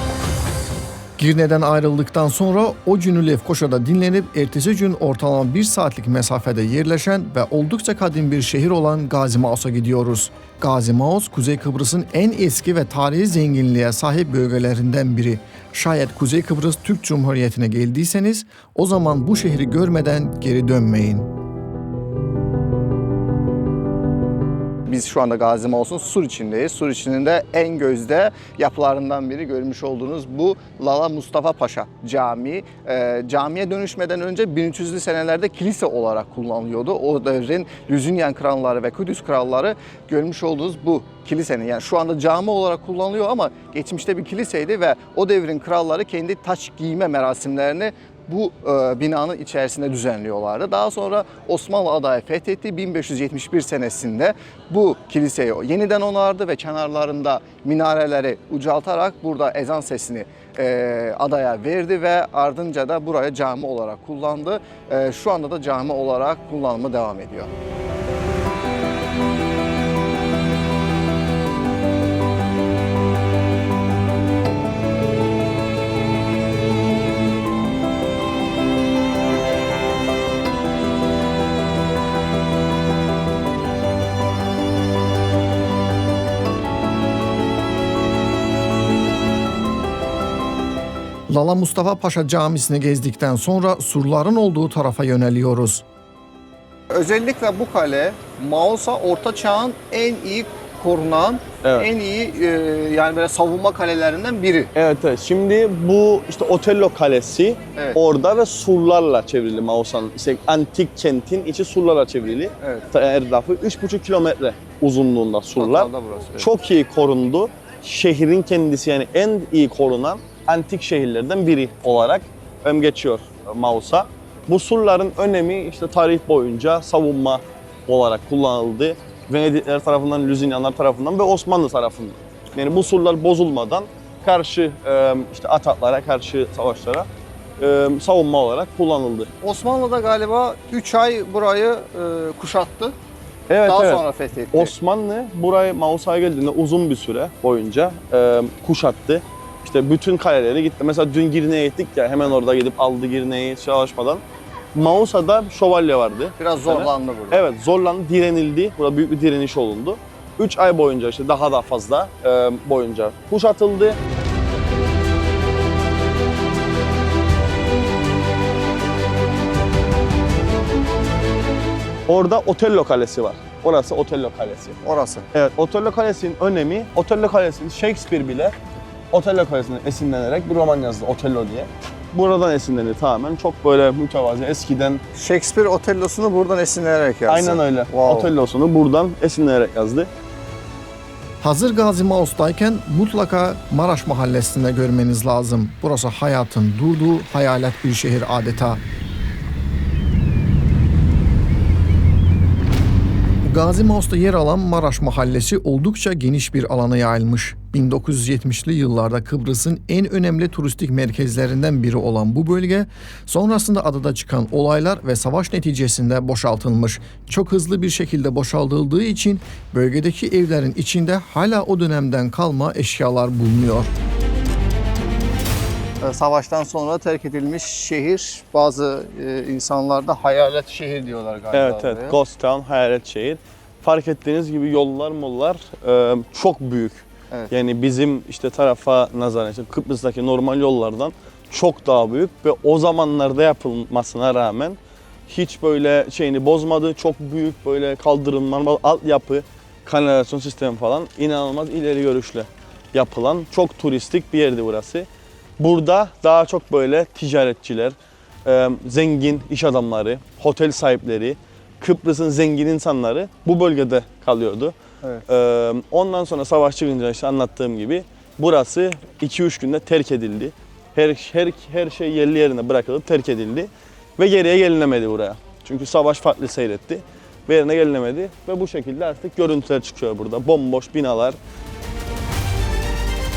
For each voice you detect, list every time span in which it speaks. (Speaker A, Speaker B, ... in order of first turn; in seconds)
Speaker A: 1.2-21.3, 91.3-95.8, 191.4-198.8, 203.4-223.9
Speaker B: 24.9-67.5, 96.9-104.7, 112.6-112.9, 115.6-116.5, 139.4-142.9, 143.7-144.7, 156.4-157.4, 174.8-175.3, 185.2-188.3, 226.0-232.2
Speaker C: 101.6-101.9, 104.8-137.1, 137.6-139.3, 143.5-154.2, 154.8-164.0, 172.1-174.8, 175.3-178.6, 179.1-185.0, 187.3-190.1, 231.5-255.1, 255.6-264.7, 265.3-281.4